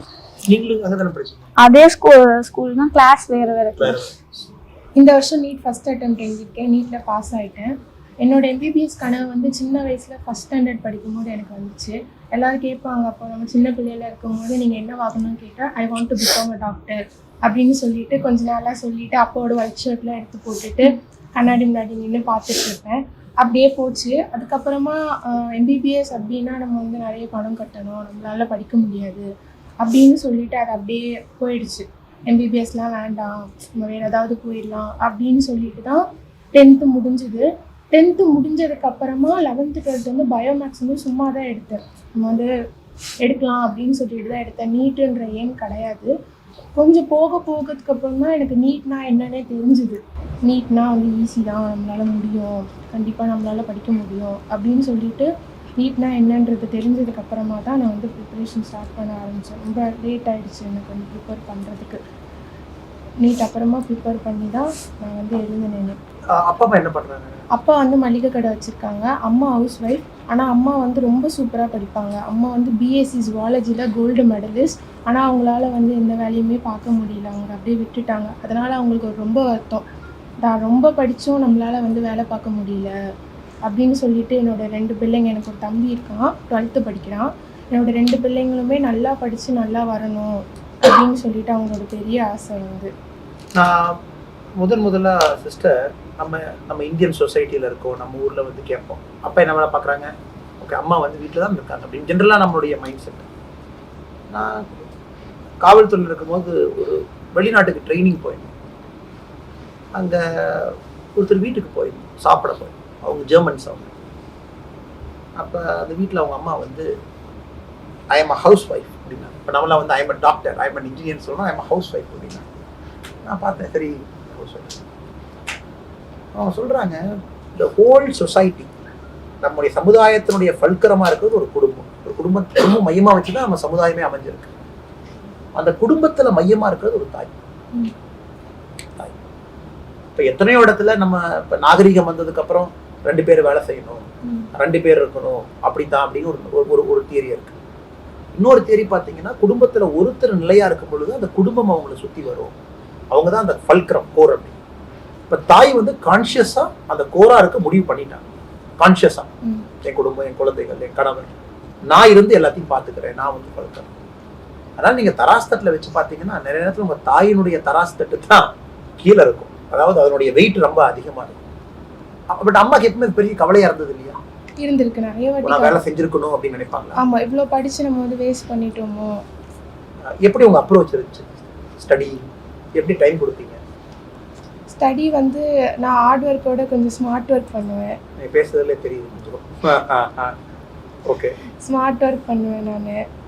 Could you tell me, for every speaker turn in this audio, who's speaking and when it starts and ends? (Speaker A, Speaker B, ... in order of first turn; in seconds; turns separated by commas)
Speaker A: 0.5-1.4, Speaker B: 1.6-4.0, Speaker A: 3.8-4.1, Speaker C: 5.0-29.2, Speaker C: 29.8-42.5, Speaker C: 43.2-46.1, Speaker C: 46.8-62.0, Speaker C: 63.2-66.0, Speaker A: 66.3-67.4, Speaker C: 67.5-79.8, Speaker C: 80.4-82.9, Speaker C: 83.6-92.9, Speaker A: 93.5-94.0, Speaker A: 94.6-103.3, Speaker A: 104.3-104.8, Speaker A: 105.6-108.5, Speaker A: 109.9-113.9, Speaker A: 115.4-116.9, Speaker A: 118.1-122.4, Speaker A: 123.2-124.8, Speaker A: 126.3-127.0, Speaker A: 127.5-128.7, Speaker A: 129.4-134.5, Speaker A: 135.5-137.3, Speaker A: 140.2-147.6, Speaker A: 148.3-152.5, Speaker A: 153.1-154.6, Speaker A: 155.3-158.2, Speaker A: 158.8-159.3, Speaker A: 159.8-161.3, Speaker A: 161.9-163.9, Speaker A: 164.8-168.5, Speaker A: 169.0-171.4, Speaker A: 172.3-174.2, Speaker C: 174.6-175.8, Speaker A: 175.4-177.0, Speaker C: 177.0-179.2, Speaker A: 180.2-183.6, Speaker C: 184.7-188.0, Speaker A: 188.2-190.3, Speaker A: 191.1-191.3, Speaker C: 191.6-193.0